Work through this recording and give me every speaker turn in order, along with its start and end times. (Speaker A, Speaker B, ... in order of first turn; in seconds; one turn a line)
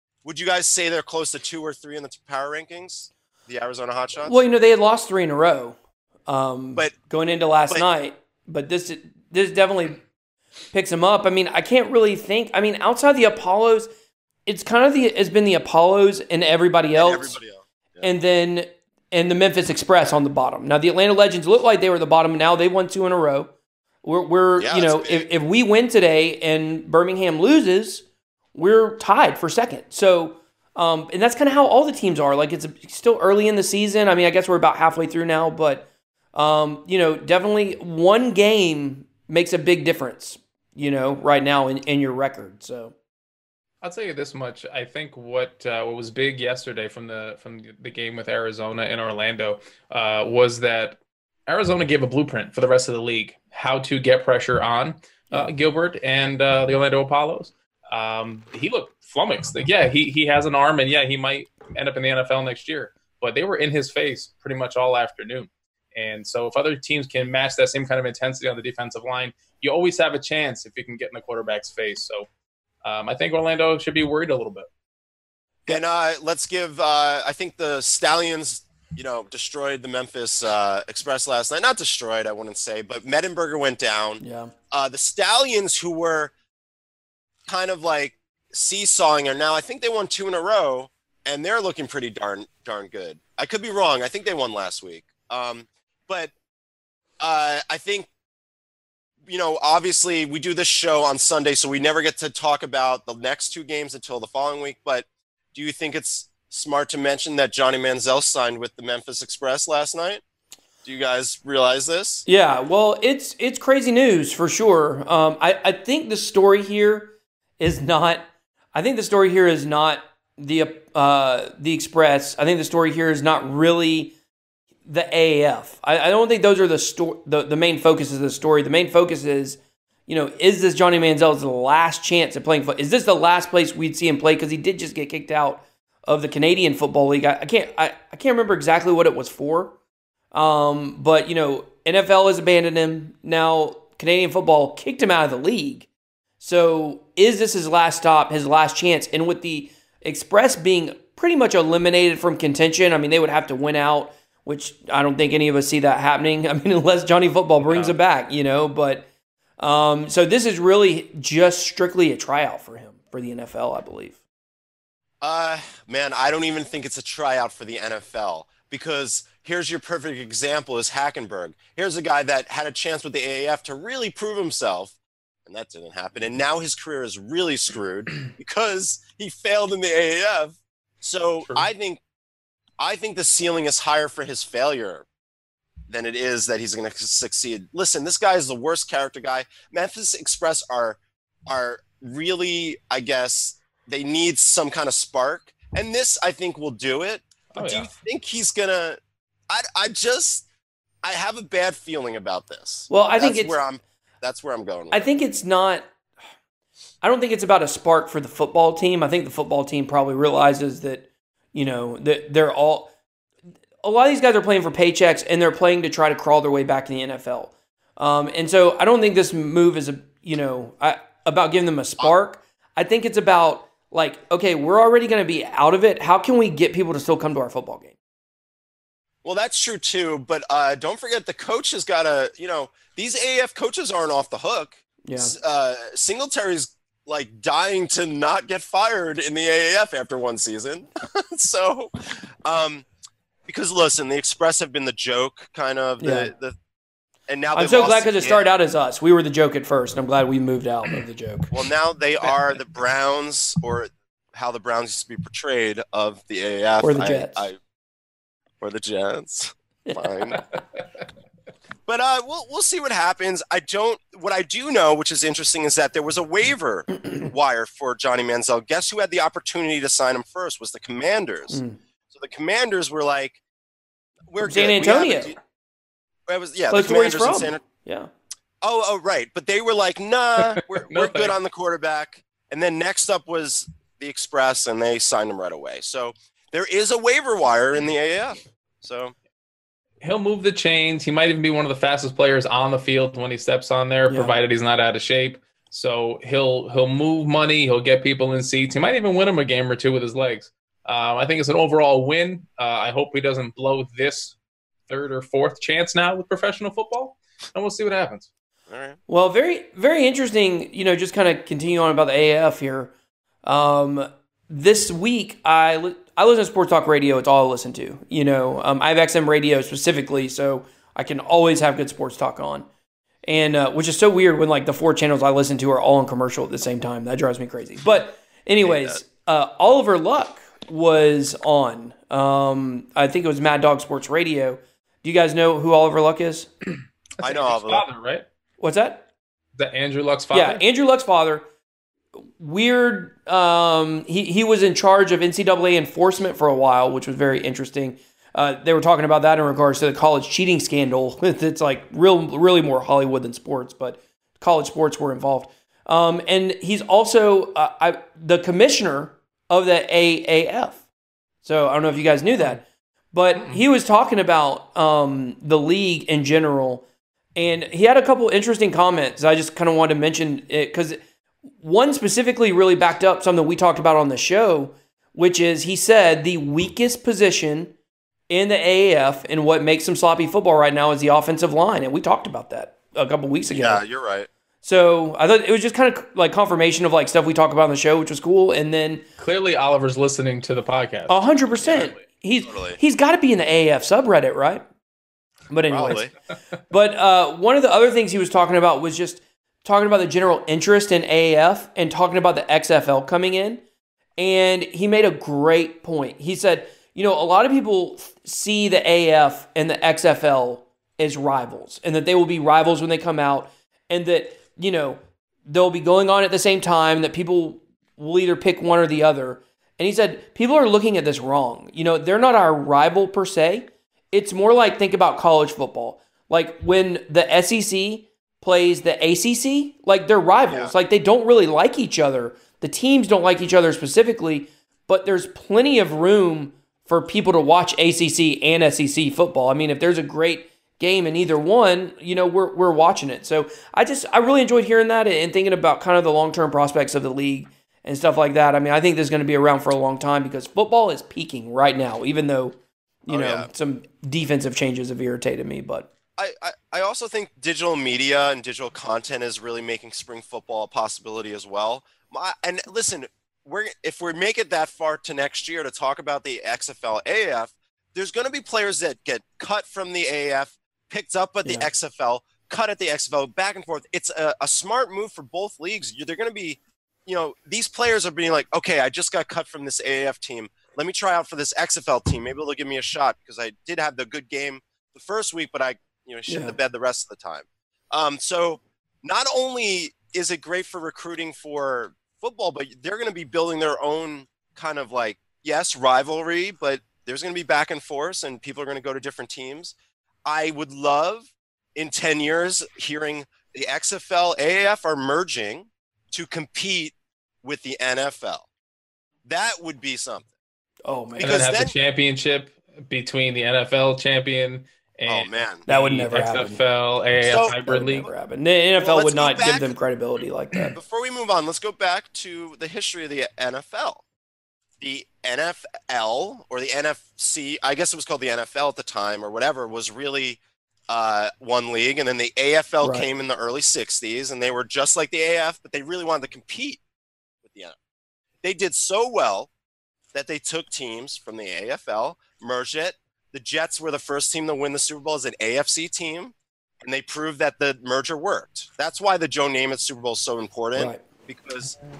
Speaker A: 0.2-4.4
Speaker B: 4.2-5.8
Speaker B: 6.3-10.0
Speaker B: 10.7-13.9
Speaker B: 14.4-17.4
Speaker A: 17.0-18.1
Speaker B: 18.0-23.5
Speaker B: 24.0-42.9
Speaker A: 24.6-25.3
Speaker C: 43.8-72.3
Speaker C: 72.8-74.7
Speaker A: 75.7-86.3
Speaker B: 84.2-84.5
Speaker A: 87.5-96.3
Speaker A: 97.2-98.1
Speaker A: 99.2-110.2
Speaker A: 110.8-112.2
Speaker B: 112.2-124.1
Speaker B: 124.8-139.7
Speaker B: 140.3-145.9
Speaker B: 146.4-159.1
Speaker C: 157.6-157.9
Speaker B: 159.6-164.2
Speaker A: 165.2-182.0
Speaker A: 182.8-185.1
Speaker A: 185.9-199.0
Speaker C: 197.5-197.9
Speaker A: 199.5-200.4
Speaker A: 201.0-205.0
Speaker B: 202.9-203.6
Speaker B: 204.9-205.9
Speaker B: 207.0-212.9
Speaker B: 213.8-227.9
Speaker A: 229.2-242.8
Speaker B: 235.0-235.3
Speaker A: 243.4-246.5
Speaker B: 246.0-246.3
Speaker A: 247.3-248.4
Speaker B: 247.5-251.5
Speaker A: 251.5-257.6
Speaker B: 256.8-257.5
Speaker A: 258.6-260.4
Speaker A: 261.9-271.6
Speaker B: 271.5-271.8
Speaker A: 272.1-273.4
Speaker A: 274.3-275.4
Speaker B: 274.4-275.4
Speaker A: 276.3-277.6
Speaker B: 276.7-278.1
Speaker A: 278.6-289.1
Speaker C: 280.4-281.3
Speaker C: 290.0-304.4
Speaker B: 294.1-294.3
Speaker C: 304.9-308.3
Speaker A: 308.7-309.0
Speaker B: 309.1-312.9
Speaker B: 313.4-322.7
Speaker B: 323.3-336.5
Speaker A: 328.6-329.0
Speaker C: 337.2-338.2
Speaker A: 337.2-337.8
Speaker B: 338.6-339.1
Speaker C: 339.6-340.6
Speaker B: 340.3-341.5
Speaker B: 342.2-360.8
Speaker B: 361.4-362.6
Speaker B: 363.1-366.8
Speaker B: 367.4-371.0
Speaker B: 371.6-377.7
Speaker B: 378.3-383.8
Speaker A: 383.6-384.3
Speaker B: 384.6-389.0
Speaker C: 389.2-391.9
Speaker B: 391.1-394.6
Speaker A: 392.4-392.8
Speaker B: 395.5-396.1
Speaker A: 395.7-396.1
Speaker B: 396.7-403.6
Speaker B: 404.2-455.9
Speaker A: 453.1-453.5
Speaker A: 456.2-508.5
Speaker B: 486.3-486.6
Speaker A: 509.2-510.3
Speaker B: 510.9-511.4
Speaker A: 511.2-511.7
Speaker C: 511.2-518.1
Speaker A: 515.1-515.6
Speaker B: 515.7-516.6
Speaker A: 517.2-517.5
Speaker B: 517.5-520.7
Speaker A: 518.8-519.8
Speaker A: 520.7-524.0
Speaker A: 524.8-536.8
Speaker A: 537.4-537.8
Speaker A: 538.4-539.5
Speaker A: 540.1-551.7
Speaker B: 550.8-551.0